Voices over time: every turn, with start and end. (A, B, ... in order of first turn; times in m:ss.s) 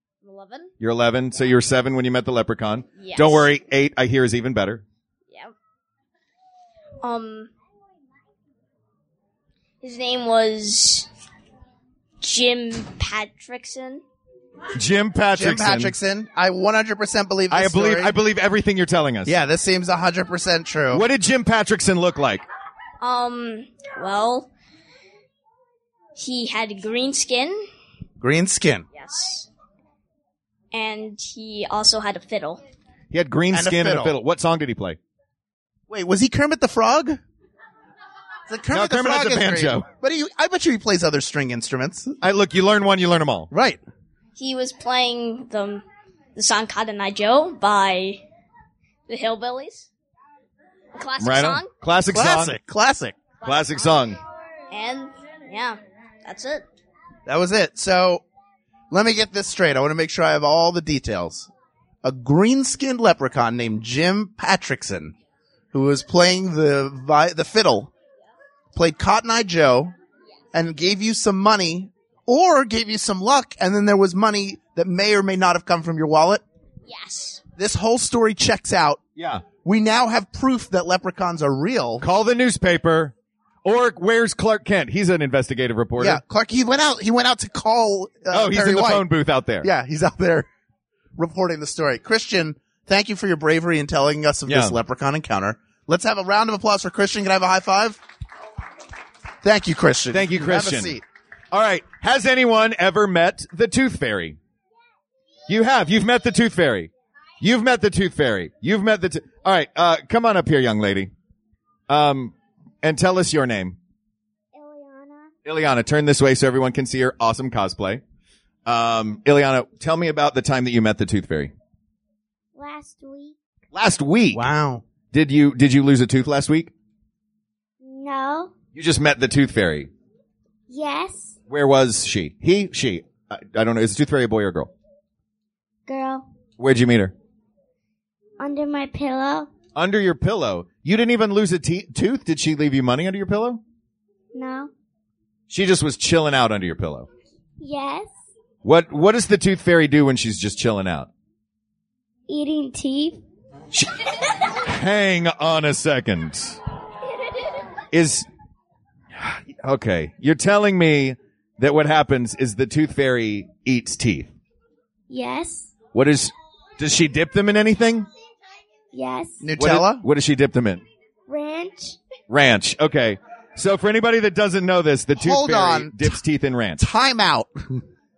0:00.2-0:00.7 A
0:00.8-0:04.8 B
0:03.0-0:03.5 A
0:05.3-0:05.5 A
0:07.0-0:07.5 A
0:09.8-0:11.1 A
0:12.2-0:14.0 A
0:14.7-0:15.9 B
0:15.3-0:18.1 C
0:17.5-0:19.4 B
0:19.2-0:21.0 C
0:20.9-0:22.4 B
0:23.0-0:24.5 A
0:26.2-0:27.6 A
0:28.2-0:28.8 C
0:28.9-0:29.5 A
0:30.7-0:32.6 A
0:33.1-0:35.0 B
0:33.5-0:34.2 C
0:35.9-0:37.2 C
0:38.5-0:42.1 C
0:38.7-0:39.9 B
0:42.2-0:43.5 B
0:43.5-0:43.8 C
0:44.4-0:45.8 A
0:46.3-0:48.2 A
0:49.1-0:49.9 A
0:50.9-0:51.7 A
0:51.2-0:52.6 B
0:52.1-0:53.2 C
0:53.4-0:54.2 B
0:54.7-0:56.6 A
0:57.3-0:58.2 C
0:58.9-1:01.5 C
1:02.0-1:05.1 C
1:05.7-1:07.9 C
1:08.7-1:09.9 C
1:10.5-1:16.4 C
1:16.8-1:17.4 A
1:17.6-1:19.0 C
1:19.2-1:19.4 B
1:19.6-1:22.0 C
1:22.0-1:26.2 B
1:26.0-1:29.1 C
1:28.3-1:29.7 B
1:29.6-1:30.5 C
1:31.2-1:38.0 C
1:34.5-1:34.8 B
1:39.4-1:41.0 C
1:40.1-1:41.0 B
1:41.5-1:44.4 B
1:45.5-1:46.9 B
1:47.4-1:51.1 B
1:51.9-1:53.8 B
1:54.5-1:55.3 D
1:55.4-1:58.0 B
1:58.6-2:01.5 B
2:02.6-2:03.4 D
2:03.7-2:04.4 B
2:04.3-2:04.8 C
2:05.1-2:06.7 B
2:07.8-2:08.5 D
2:08.7-2:09.9 B
2:10.7-2:11.4 D
2:11.5-2:14.7 B
2:15.9-2:16.2 D
2:16.6-2:17.1 B
2:18.4-2:19.5 D
2:19.8-2:23.6 B
2:24.3-2:24.7 D
2:25.5-2:27.1 B
2:27.6-2:28.1 D
2:28.6-2:31.1 B
2:32.3-2:33.2 D
2:34.5-2:36.6 B
2:37.9-2:38.3 B
2:39.1-2:44.3 B
2:45.1-2:45.7 D
2:45.9-2:48.1 B
2:48.9-2:49.4 D
2:49.4-2:50.0 C
2:49.6-2:50.8 B
2:51.3-2:52.0 D
2:52.3-2:56.8 B
2:55.2-2:56.2 C
2:56.8-2:57.8 C